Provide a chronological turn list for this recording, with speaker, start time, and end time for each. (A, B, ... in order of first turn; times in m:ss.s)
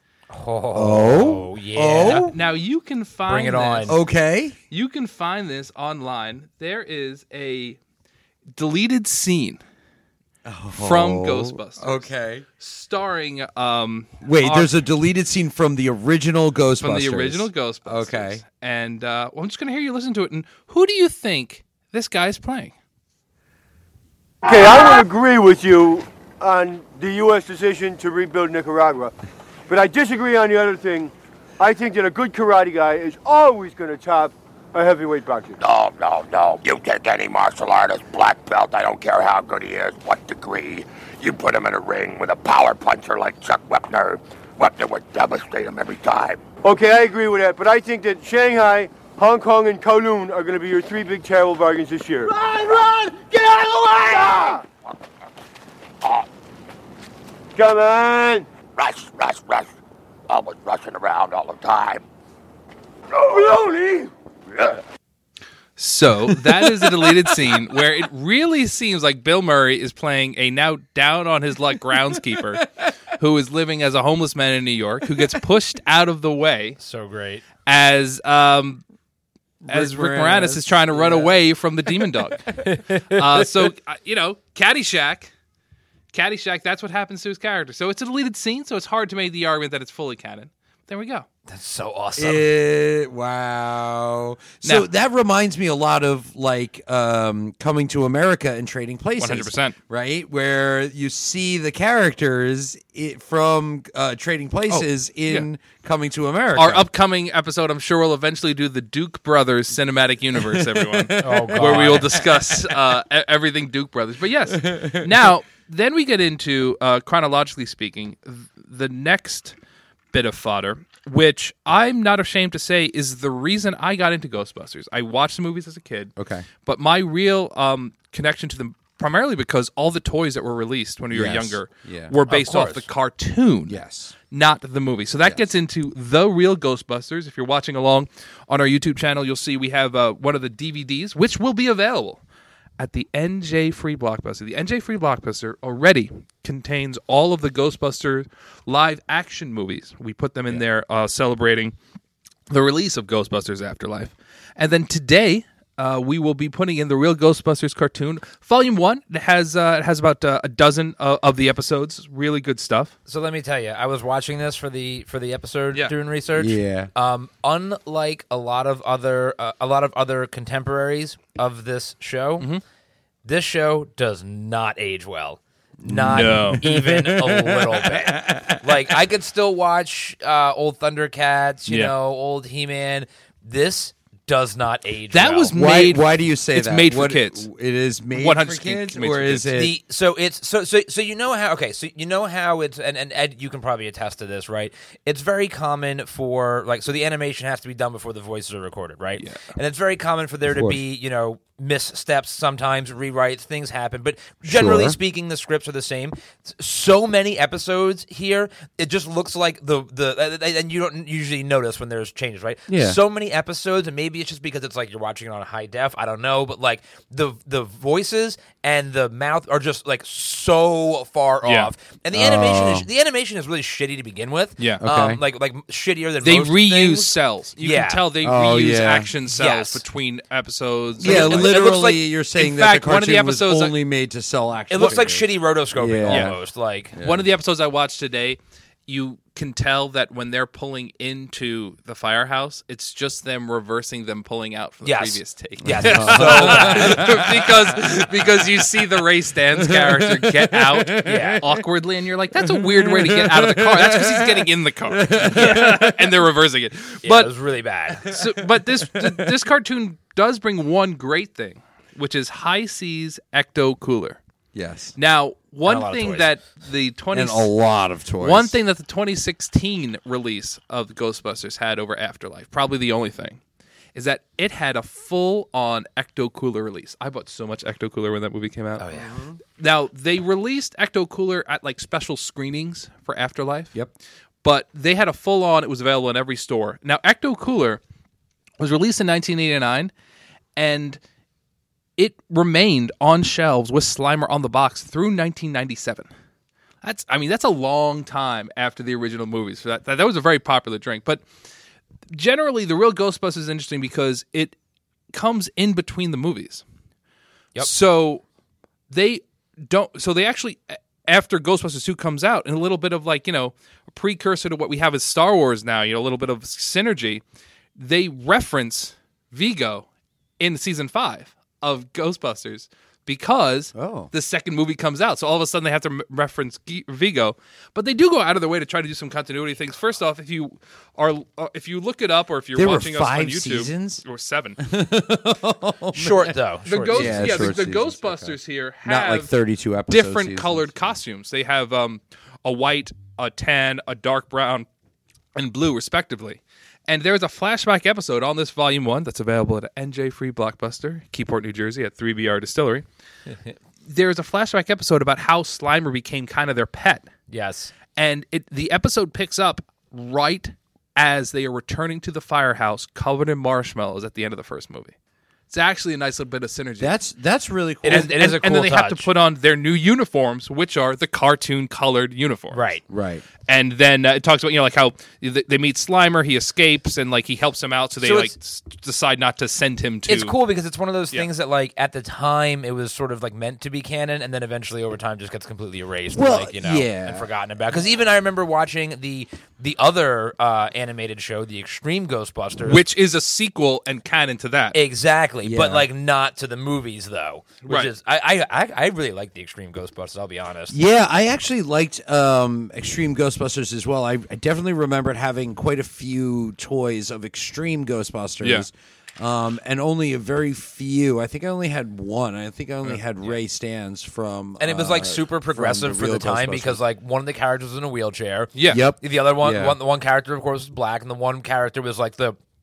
0:00.3-0:02.3 A
0:00.7-0:02.3 B
0:02.1-0:04.0 C
0:03.3-0:04.0 A
0:03.8-0:04.6 B
0:04.7-0:07.8 C
0:08.5-0:09.6 C
0:10.4-0:12.4 B
0:10.7-0:12.1 C
0:12.6-0:14.7 C
0:14.2-0:18.4 B
0:16.8-0:22.7 C
0:24.4-0:29.1 D
0:29.7-0:35.6 D
0:35.6-0:46.4 E
0:46.6-0:54.6 D
0:57.6-0:58.5 D
0:58.8-0:59.7 E
1:00.3-1:02.0 E
1:03.2-1:04.1 D
1:05.8-1:16.8 C
1:06.3-1:07.6 B
1:12.1-1:12.6 B
1:16.8-1:17.4 A
1:17.6-1:18.8 C
1:19.6-1:21.3 B
1:19.7-1:25.3 C
1:26.1-1:31.3 C
1:31.5-1:32.4 A
1:32.2-1:46.9 B
1:39.2-1:39.8 C
1:44.7-1:45.5 C
1:46.6-1:59.5 C
1:50.4-1:52.8 B
1:51.2-1:52.2 A
1:54.5-1:55.1 B
2:00.1-2:13.8 C
2:06.2-2:06.5 B
2:11.1-2:12.1 B
2:12.3-2:12.8 A
2:13.7-2:14.1 B
2:14.3-2:22.2 C
2:22.8-2:31.7 C
2:32.5-2:42.9 C
2:43.1-2:52.5 A
2:46.4-2:46.9 B
2:53.2-3:05.5 A
2:55.8-2:59.0 B
2:56.1-2:56.6 C
3:01.7-3:01.9 C
3:05.1-3:07.5 C
3:05.5-3:09.8 B
3:08.1-3:09.5 C
3:09.5-3:48.0 A
3:19.2-3:19.4 C
3:20.5-3:20.8 B
3:24.5-3:25.0 B
3:32.7-3:33.0 B
3:41.4-3:41.7 C
3:42.1-3:42.9 B
3:44.8-3:45.2 B
3:46.2-3:51.6 C
3:48.2-3:49.1 B
3:49.2-3:49.8 A
3:51.0-3:56.3 B
3:51.0-3:52.0 A
3:52.4-3:53.7 C
3:54.7-3:56.9 A
3:56.1-3:56.4 C
3:57.0-3:57.2 B
3:57.0-4:17.3 C
4:04.8-4:07.1 A
4:05.6-4:09.0 B
4:09.6-4:11.6 B
4:11.0-4:11.4 A
4:12.4-4:16.2 B
4:15.3-4:15.8 A
4:17.0-4:18.1 A
4:18.0-4:24.2 C
4:18.1-4:19.3 B
4:24.5-4:24.9 B
4:25.0-4:27.5 C
4:25.6-4:26.3 A
4:27.1-4:28.6 B
4:28.2-4:33.4 C
4:33.9-4:38.8 C
4:38.8-4:39.1 A
4:39.0-4:39.4 B
4:39.6-4:43.7 C
4:44.4-4:47.8 C
4:48.6-4:49.9 C
4:50.6-4:51.0 C
4:52.0-4:56.1 C
4:56.8-5:01.2 C
5:02.1-5:04.6 C
5:05.1-5:06.6 C
5:07.6-5:08.2 C
5:08.9-5:17.2 C
5:17.8-5:19.9 C
5:20.4-5:34.6 C
5:23.7-5:24.1 B
5:32.5-5:34.0 B
5:34.6-5:36.3 B
5:35.9-5:37.5 A
5:36.6-5:39.3 C
5:36.9-5:40.6 B
5:39.9-5:44.7 C
5:45.3-5:52.8 C
5:53.3-5:53.5 A
5:53.9-5:57.1 C
5:57.3-5:57.7 A
5:57.9-6:04.9 C
6:05.5-6:07.0 C
6:06.8-6:08.1 B
6:07.8-6:09.1 A
6:07.9-6:12.6 C
6:12.5-6:12.8 A
6:12.9-6:13.2 B
6:13.5-6:20.4 C
6:18.0-6:18.3 A
6:20.1-6:32.8 A
6:26.1-6:27.3 B
6:32.6-6:34.8 C
6:34.7-6:40.8 A
6:35.4-6:35.8 B
6:37.6-6:37.9 C
6:40.7-6:56.8 B
6:48.4-6:48.7 C
6:54.6-7:02.4 A
6:58.5-6:58.8 C
6:58.7-6:59.8 B